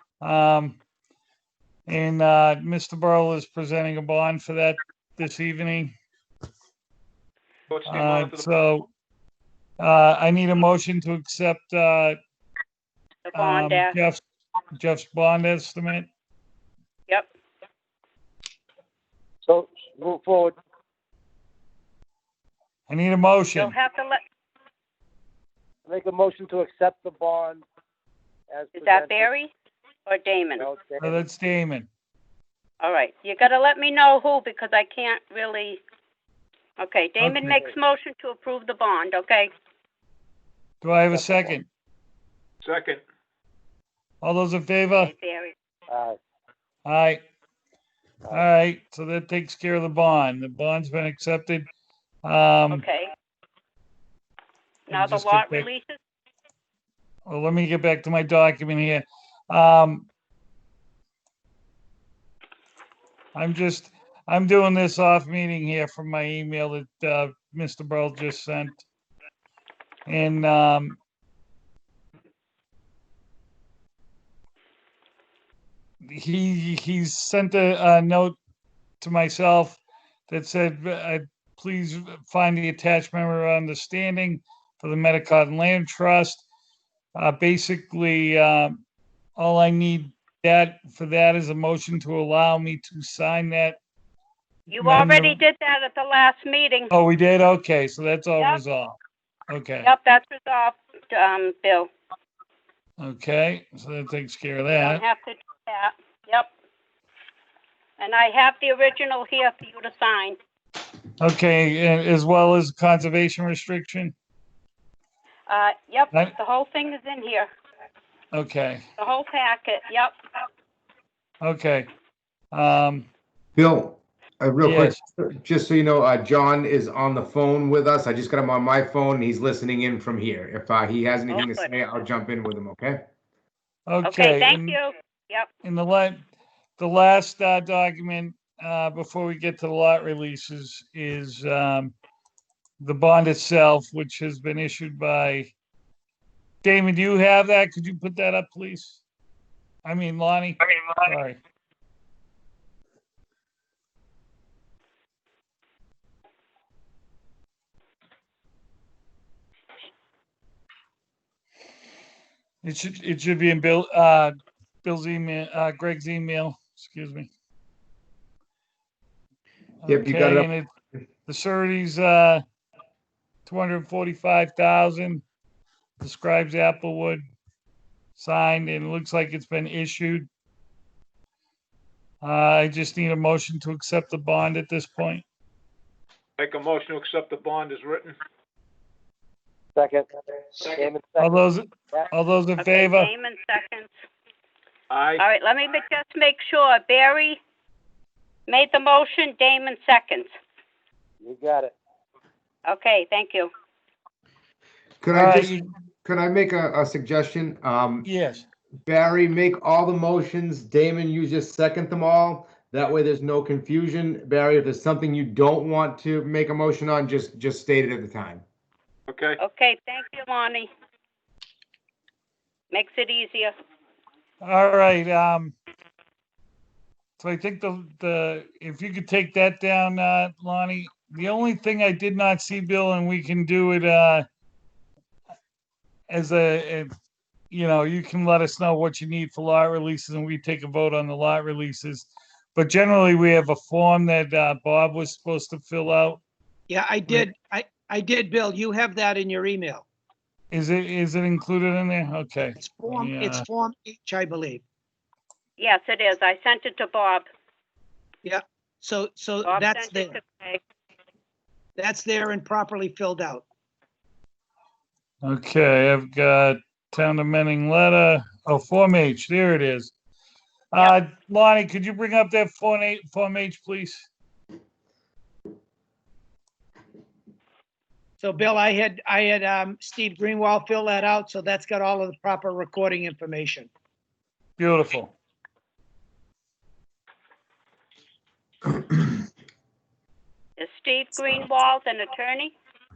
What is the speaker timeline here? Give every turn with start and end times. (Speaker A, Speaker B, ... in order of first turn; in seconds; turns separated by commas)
Speaker A: 0.2-0.8, Speaker A: 1.9-5.9, Speaker B: 7.7-8.5, Speaker A: 7.9-8.9, Speaker A: 9.8-12.2, Speaker C: 13.3-14.0, Speaker A: 13.3-14.2, Speaker A: 14.7-16.1, Speaker D: 19.4-20.6, Speaker A: 22.9-23.7, Speaker C: 23.5-24.2, Speaker D: 25.9-27.6, Speaker D: 28.5-29.3, Speaker C: 28.8-29.5, Speaker C: 30.1-30.7, Speaker D: 30.6-31.2, Speaker A: 31.0-31.9, Speaker C: 32.8-35.8, Speaker C: 36.8-39.5, Speaker A: 37.2-37.6, Speaker A: 40.8-41.7, Speaker D: 41.1-41.5, Speaker B: 42.6-43.0, Speaker A: 44.2-45.1, Speaker C: 45.0-45.5, Speaker D: 45.9-46.2, Speaker A: 46.9-47.2, Speaker A: 48.3-51.6, Speaker A: 52.2-52.8, Speaker C: 52.7-53.1, Speaker C: 54.9-56.0, Speaker A: 54.9-55.7, Speaker A: 57.3-60.1, Speaker A: 63.3-68.8, Speaker A: 70.1-71.0, Speaker A: 76.0-78.4, Speaker A: 79.0-86.4, Speaker A: 87.2-88.8, Speaker A: 89.4-93.8, Speaker C: 94.7-96.9, Speaker A: 94.8-95.4, Speaker A: 96.9-99.0, Speaker A: 99.5-99.9, Speaker C: 99.8-101.9, Speaker A: 103.0-105.0, Speaker C: 104.8-106.5, Speaker C: 108.0-110.4, Speaker A: 111.2-114.1, Speaker C: 115.5-117.5, Speaker A: 118.3-118.8, Speaker C: 119.0-120.2, Speaker A: 121.4-121.9, Speaker A: 122.5-123.1, Speaker E: 123.6-133.0, Speaker A: 124.6-125.0, Speaker C: 131.3-131.7, Speaker A: 133.9-134.8, Speaker C: 134.1-135.5, Speaker A: 135.6-136.2, Speaker A: 136.8-141.9, Speaker A: 142.8-145.5, Speaker A: 146.6-149.0, Speaker A: 149.8-151.4, Speaker A: 162.6-167.3, Speaker A: 169.8-170.7, Speaker E: 169.9-170.5, Speaker A: 171.3-172.4, Speaker A: 173.5-175.2, Speaker A: 176.0-177.2, Speaker A: 178.2-180.3, Speaker A: 182.2-185.2, Speaker B: 186.4-188.2, Speaker D: 189.8-190.1, Speaker B: 190.6-190.9, Speaker D: 190.7-191.4, Speaker A: 191.2-193.1, Speaker C: 192.6-193.9, Speaker B: 194.9-195.2, Speaker C: 195.2-197.4, Speaker C: 198.5-200.3, Speaker D: 201.2-201.8, Speaker C: 202.7-203.5, Speaker E: 205.0-208.1, Speaker A: 205.1-205.6, Speaker A: 208.0-208.5, Speaker E: 208.9-218.4, Speaker B: 219.1-219.4, Speaker C: 219.4-220.7, Speaker C: 222.7-223.5, Speaker A: 224.4-225.6, Speaker A: 227.2-234.2, Speaker A: 236.1-236.9, Speaker A: 237.5-246.2, Speaker F: 246.7-249.8, Speaker A: 250.5-253.5, Speaker F: 252.6-254.6, Speaker C: 255.6-257.3, Speaker F: 258.2-260.2, Speaker C: 259.4-260.6, Speaker F: 261.8-263.4, Speaker A: 265.2-269.9, Speaker A: 270.7-274.1, Speaker F: 278.2-283.7, Speaker A: 284.6-285.1, Speaker C: 290.6-292.5